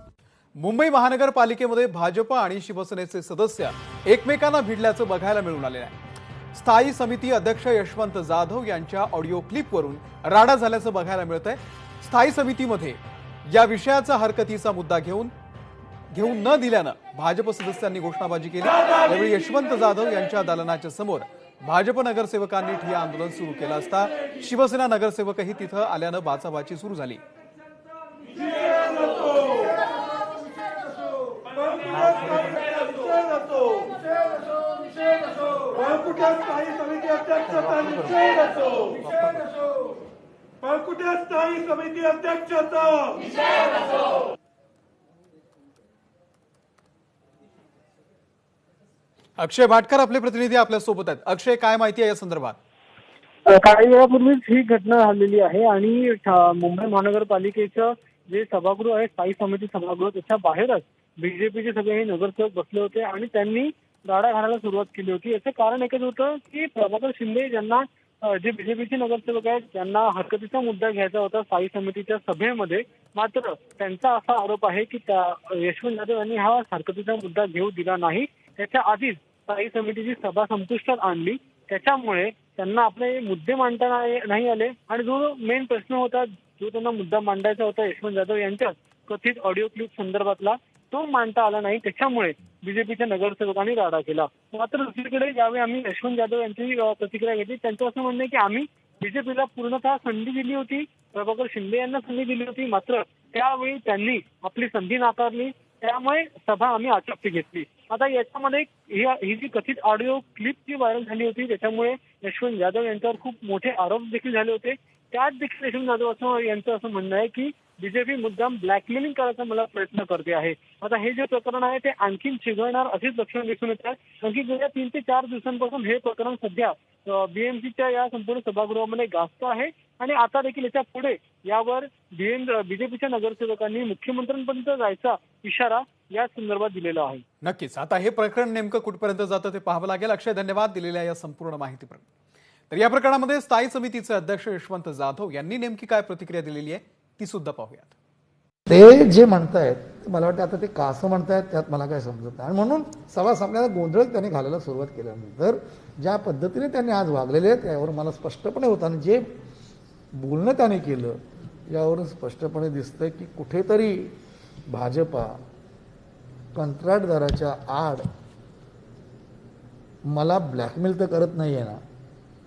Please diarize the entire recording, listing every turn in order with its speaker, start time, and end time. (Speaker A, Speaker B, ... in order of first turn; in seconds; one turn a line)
Speaker A: 0.6-6.0
Speaker A: 6.5-15.3
Speaker A: 16.1-27.2
Speaker B: 31.6-34.0
Speaker B: 35.7-39.0
Speaker A: 37.8-38.3
Speaker B: 40.7-43.2
Speaker A: 49.4-52.6
Speaker C: 53.5-137.2
Speaker A: 137.4-142.1
Speaker A: 142.7-147.9
Speaker D: 148.7-159.2
Speaker D: 160.2-161.2
Speaker D: 161.7-164.1
Speaker D: 164.7-165.4
Speaker D: 166.5-168.0
Speaker D: 170.1-171.8